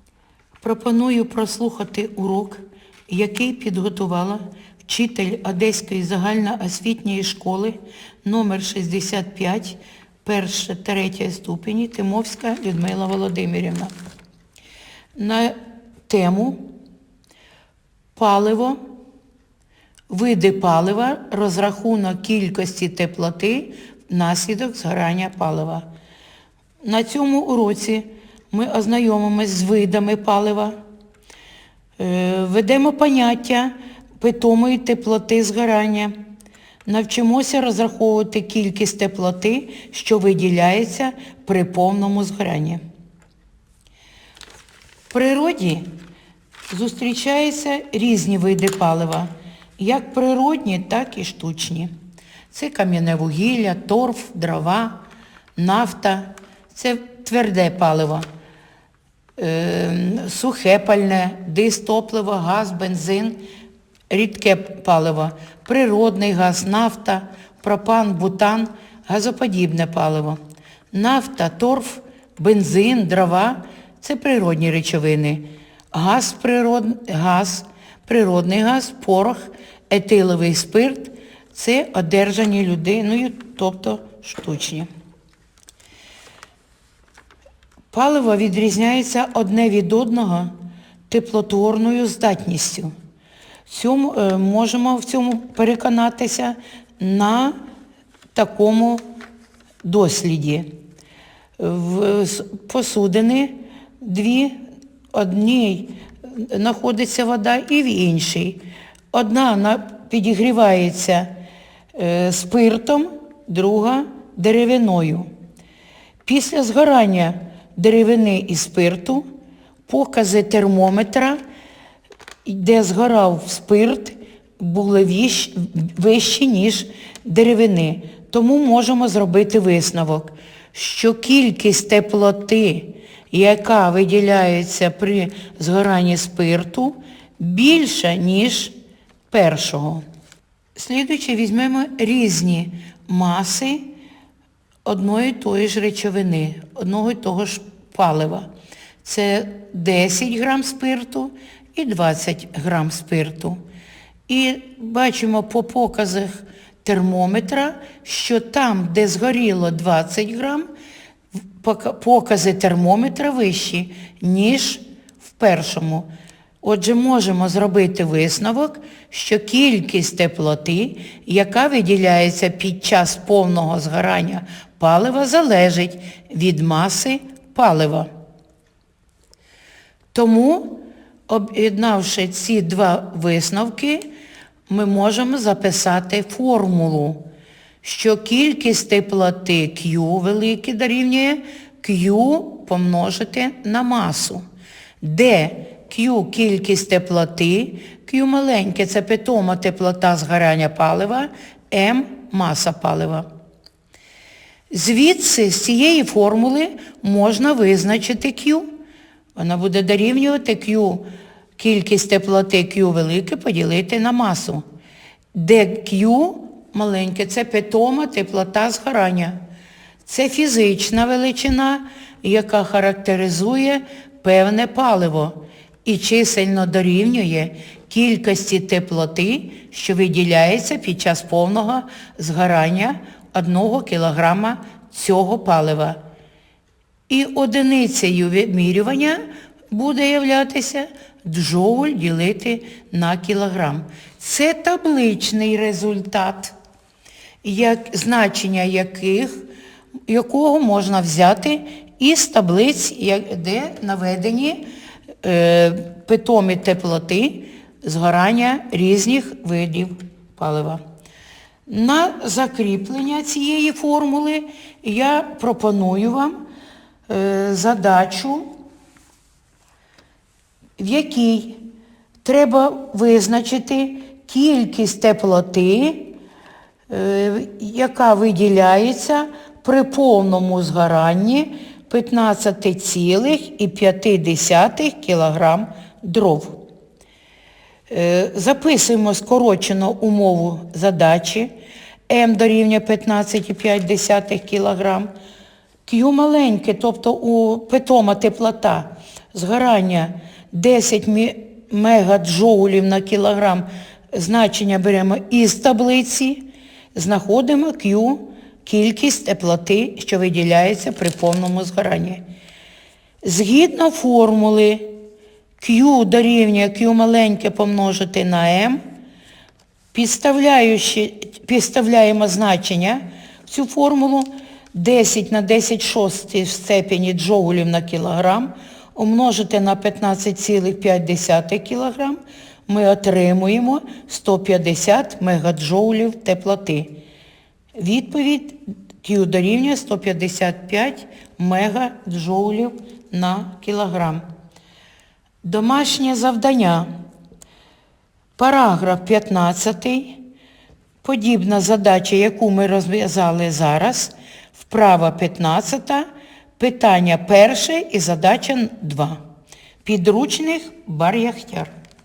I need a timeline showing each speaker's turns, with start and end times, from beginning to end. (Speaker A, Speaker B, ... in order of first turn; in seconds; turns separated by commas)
Speaker A: 0.6-13.9, Speaker A: 15.2-16.6, Speaker A: 18.1-18.8, Speaker A: 20.1-25.9, Speaker A: 26.8-30.8, Speaker A: 32.0-36.1, Speaker A: 36.9-42.8, Speaker A: 45.1-45.9, Speaker A: 46.7-51.9, Speaker A: 52.5-55.0, Speaker A: 55.6-58.2, Speaker A: 59.4-63.4, Speaker A: 64.1-70.4, Speaker A: 70.9-84.9, Speaker A: 87.9-90.5, Speaker A: 91.1-92.9, Speaker A: 93.7-97.5, Speaker A: 98.3-99.0, Speaker A: 99.8-100.7, Speaker A: 101.6-104.6, Speaker A: 105.1-108.6, Speaker A: 109.1-111.3, Speaker A: 111.9-115.3, Speaker A: 116.2-119.2, Speaker A: 119.9-121.4, Speaker A: 122.4-138.7, Speaker A: 139.3-140.0, Speaker A: 140.8-143.9, Speaker A: 144.8-148.5, Speaker A: 149.0-153.6, Speaker A: 154.3-160.7, Speaker A: 161.6-166.1, Speaker A: 166.6-178.1, Speaker A: 180.1-184.1, Speaker A: 184.7-187.2, Speaker A: 187.8-194.4, Speaker A: 195.0-203.3, Speaker A: 204.7-208.7, Speaker A: 209.3-211.0, Speaker A: 211.6-214.6, Speaker A: 215.3-219.4, Speaker A: 220.0-236.0, Speaker A: 237.1-246.5, Speaker A: 247.4-249.4, Speaker A: 250.1-254.6, Speaker A: 255.2-260.8, Speaker A: 261.7-266.4, Speaker A: 267.1-268.5, Speaker A: 270.8-271.6, Speaker A: 272.2-276.1, Speaker A: 276.9-286.6, Speaker A: 287.9-291.5, Speaker A: 292.1-295.1, Speaker A: 295.9-306.4, Speaker A: 306.9-312.2, Speaker A: 313.2-314.9, Speaker A: 315.6-318.8, Speaker A: 319.9-336.9, Speaker A: 337.8-344.2, Speaker A: 345.4-346.9, Speaker A: 348.4-350.2, Speaker A: 351.0-356.1, Speaker A: 356.6-359.2, Speaker A: 359.8-361.7